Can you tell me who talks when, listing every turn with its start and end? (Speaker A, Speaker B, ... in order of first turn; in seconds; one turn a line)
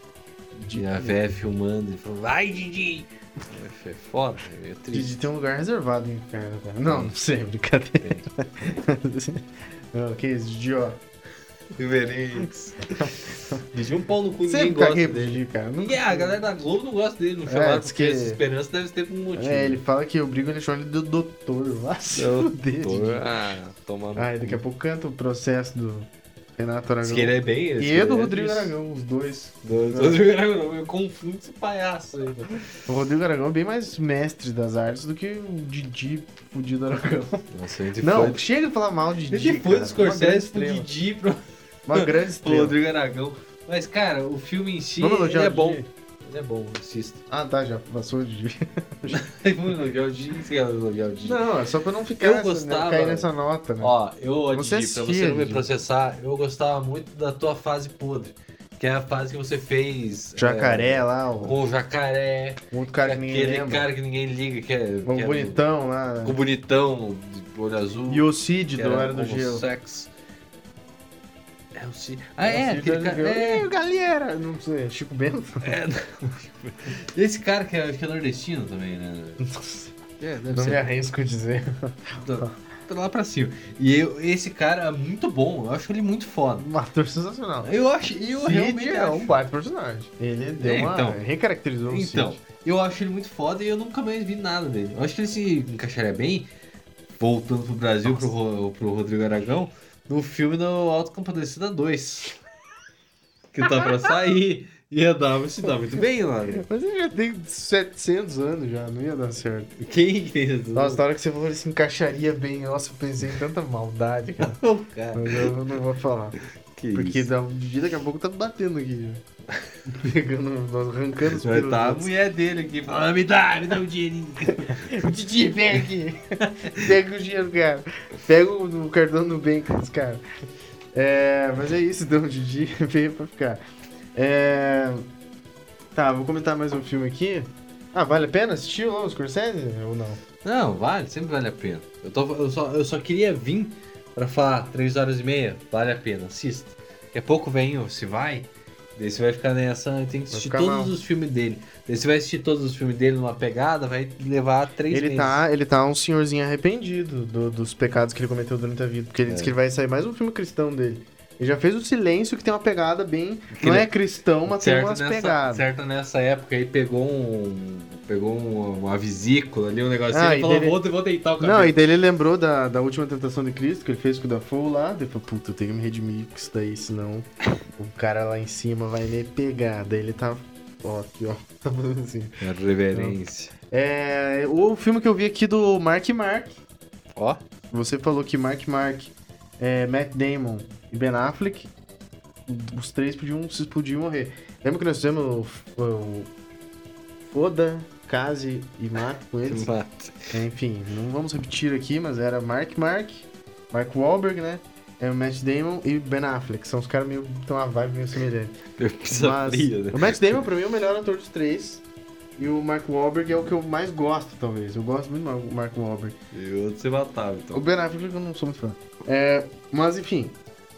Speaker A: 0.6-1.2
Speaker B: 0.7-5.2
Speaker A: 4.9-11.0
Speaker B: 6.9-7.1
Speaker B: 8.0-8.3
Speaker B: 11.8-19.8
Speaker A: 13.0-13.6
Speaker A: 14.5-16.3
Speaker A: 17.5-18.4
Speaker A: 19.4-23.3
Speaker B: 22.1-24.6
Speaker A: 24.2-30.2
Speaker B: 27.0-28.8
Speaker B: 29.6-32.6
Speaker A: 32.9-37.5
Speaker B: 37.5-38.4
Speaker A: 38.0-40.9
Speaker B: 39.3-41.4
Speaker A: 41.9-42.8
Speaker B: 41.9-47.2
Speaker A: 45.0-45.9
Speaker A: 47.3-49.2
Speaker B: 49.1-51.4
Speaker A: 51.2-53.9
Speaker B: 52.2-53.3
Speaker B: 53.8-65.6
Speaker A: 54.5-55.7
Speaker A: 60.4-61.6
Speaker A: 62.7-63.9
Speaker A: 65.0-66.4
Speaker B: 66.2-70.1
Speaker A: 68.1-69.7
Speaker B: 71.7-73.7
Speaker A: 72.4-75.7
Speaker B: 75.6-79.4
Speaker A: 79.4-79.9
Speaker B: 80.2-80.9
Speaker A: 80.5-82.5
Speaker B: 82.2-86.7
Speaker A: 86.6-87.7
Speaker B: 87.6-89.3
Speaker A: 88.3-92.4
Speaker B: 90.6-91.2
Speaker B: 91.9-96.5
Speaker B: 97.2-102.4
Speaker A: 98.0-98.3
Speaker B: 103.5-106.7
Speaker A: 106.5-109.7
Speaker B: 109.8-111.0
Speaker A: 110.8-114.6
Speaker B: 114.4-115.5
Speaker A: 115.1-116.4
Speaker B: 116.8-117.3
Speaker A: 116.9-119.2
Speaker A: 119.8-122.1
Speaker B: 121.3-125.0
Speaker A: 124.5-130.2
Speaker B: 126.6-126.9
Speaker A: 130.9-133.6
Speaker A: 134.2-135.1
Speaker A: 135.9-140.2
Speaker B: 140.4-155.4
Speaker A: 150.3-150.9
Speaker A: 154.9-165.7
Speaker B: 159.3-159.6
Speaker B: 163.5-163.9
Speaker B: 164.5-171.8
Speaker A: 170.1-170.8
Speaker A: 171.4-182.4
Speaker B: 182.4-183.5
Speaker A: 182.9-183.2
Speaker A: 183.7-186.6
Speaker B: 187.2-187.4
Speaker A: 187.7-191.7
Speaker A: 192.5-196.3
Speaker A: 197.3-199.7
Speaker B: 199.4-200.3
Speaker A: 200.3-208.6
Speaker B: 208.8-210.2
Speaker A: 209.1-211.8
Speaker A: 212.4-216.2
Speaker B: 216.3-217.7
Speaker A: 217.5-220.4